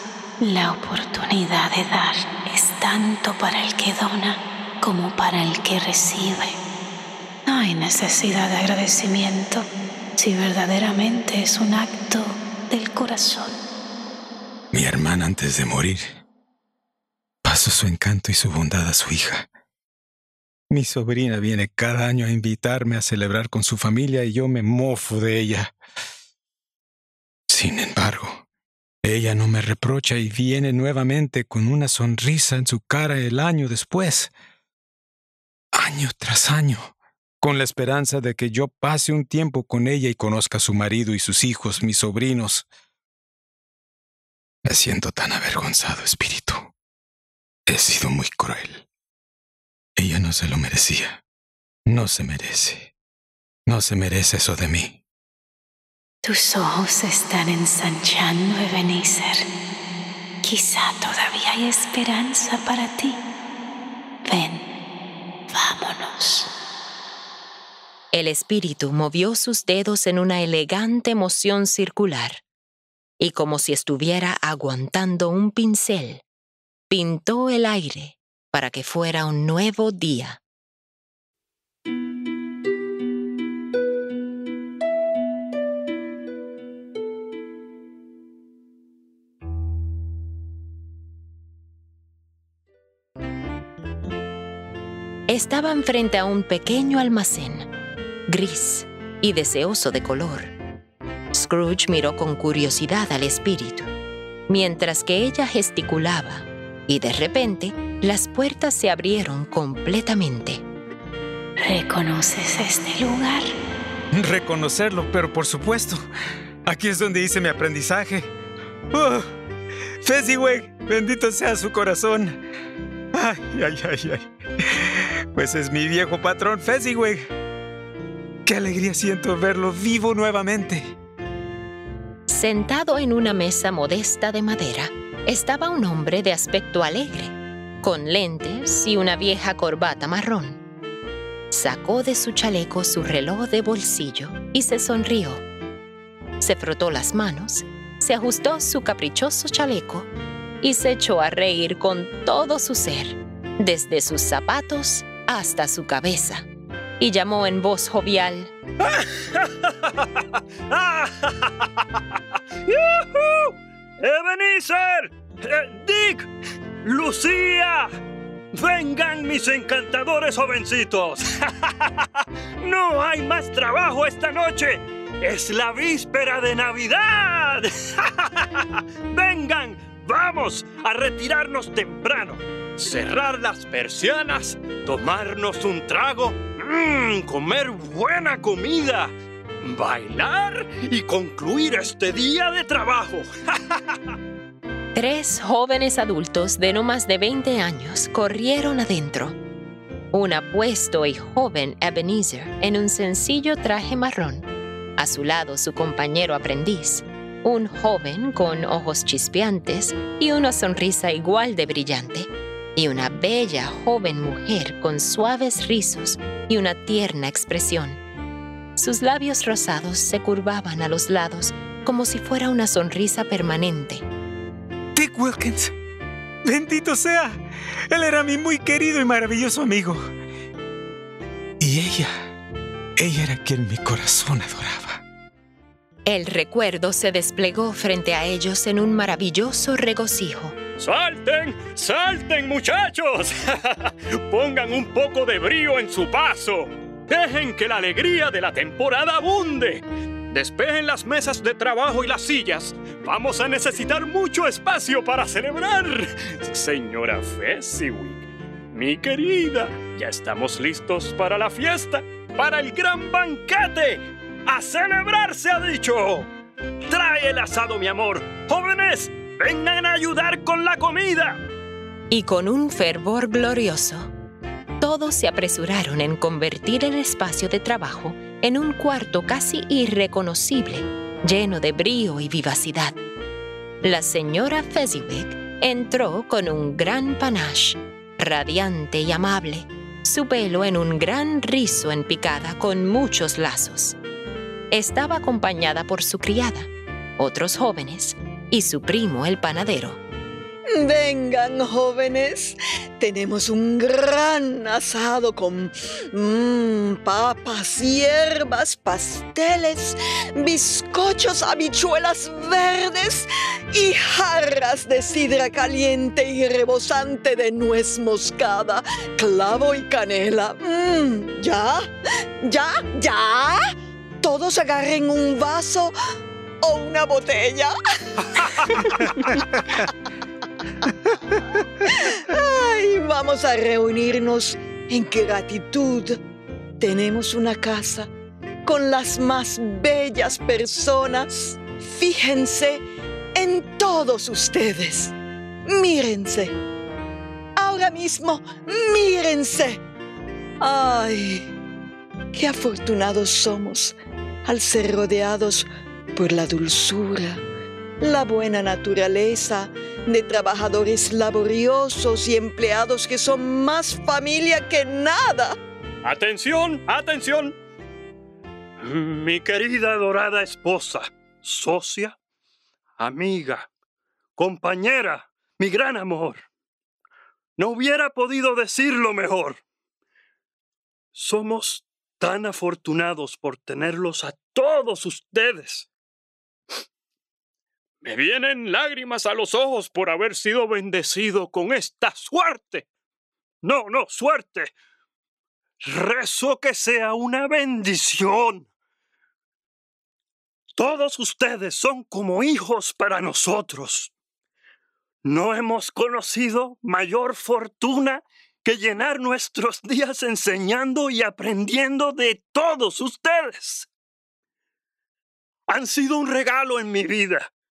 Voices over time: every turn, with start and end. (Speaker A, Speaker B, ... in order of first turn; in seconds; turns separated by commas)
Speaker A: 0.4-6.6, Speaker A: 7.5-13.5, Speaker B: 14.7-16.2, Speaker B: 17.4-19.5, Speaker B: 20.7-25.7, Speaker B: 27.5-28.4, Speaker B: 29.0-34.3, Speaker B: 35.7-42.7, Speaker B: 44.6-46.7, Speaker B: 47.7-48.9, Speaker B: 50.0-51.2, Speaker B: 51.9-52.9, Speaker B: 53.6-55.0, Speaker A: 56.2-59.5, Speaker A: 60.4-63.2, Speaker A: 64.2-64.7, Speaker A: 65.5-66.5, Speaker C: 68.1-72.4, Speaker C: 73.2-76.2, Speaker C: 76.9-80.4, Speaker C: 95.3-97.7, Speaker C: 98.3-100.5, Speaker C: 101.3-103.9, Speaker C: 104.5-110.6, Speaker A: 111.6-113.5, Speaker B: 114.1-116.0, Speaker B: 116.7-118.3, Speaker B: 118.9-119.3, Speaker B: 120.0-122.4, Speaker B: 123.1-127.2, Speaker B: 128.4-130.9, Speaker C: 132.3-140.6, Speaker C: 141.5-145.4, Speaker C: 146.4-150.1, Speaker C: 150.6-156.5, Speaker C: 157.0-158.5, Speaker D: 158.9-161.8, Speaker D: 162.7-166.3, Speaker D: 166.8-167.9, Speaker D: 168.5-172.1, Speaker D: 172.6-193.8, Speaker C: 194.9-199.4, Speaker C: 200.1-218.0, Speaker C: 218.8-224.0, Speaker B: 224.9-225.7, Speaker B: 226.4-230.1, Speaker B: 231.6-232.1, Speaker B: 233.0-235.0, Speaker C: 236.1-240.6, Speaker D: 240.8-266.3, Speaker D: 266.8-271.4, Speaker C: 272.1-274.1, Speaker C: 274.8-283.0, Speaker C: 283.8-294.0, Speaker C: 294.7-300.0, Speaker E: 300.7-321.9, Speaker E: 322.4-323.6, Speaker E: 324.2-325.9, Speaker E: 326.6-327.7, Speaker B: 328.8-329.8, Speaker E: 331.9-336.2, Speaker E: 336.8-338.1, Speaker E: 338.6-345.1, Speaker E: 345.7-346.6, Speaker E: 347.6-349.8, Speaker E: 350.6-351.5, Speaker E: 352.3-357.4, Speaker E: 358.0-365.6, Speaker D: 366.0-367.6, Speaker D: 368.8-372.2, Speaker D: 373.0-373.7, Speaker D: 374.4-376.4, Speaker D: 377.6-379.6, Speaker D: 381.1-385.9, Speaker D: 388.0-392.9, Speaker D: 393.6-394.7, Speaker D: 395.8-398.7, Speaker D: 400.8-404.1, Speaker D: 405.2-413.9, Speaker D: 415.7-417.5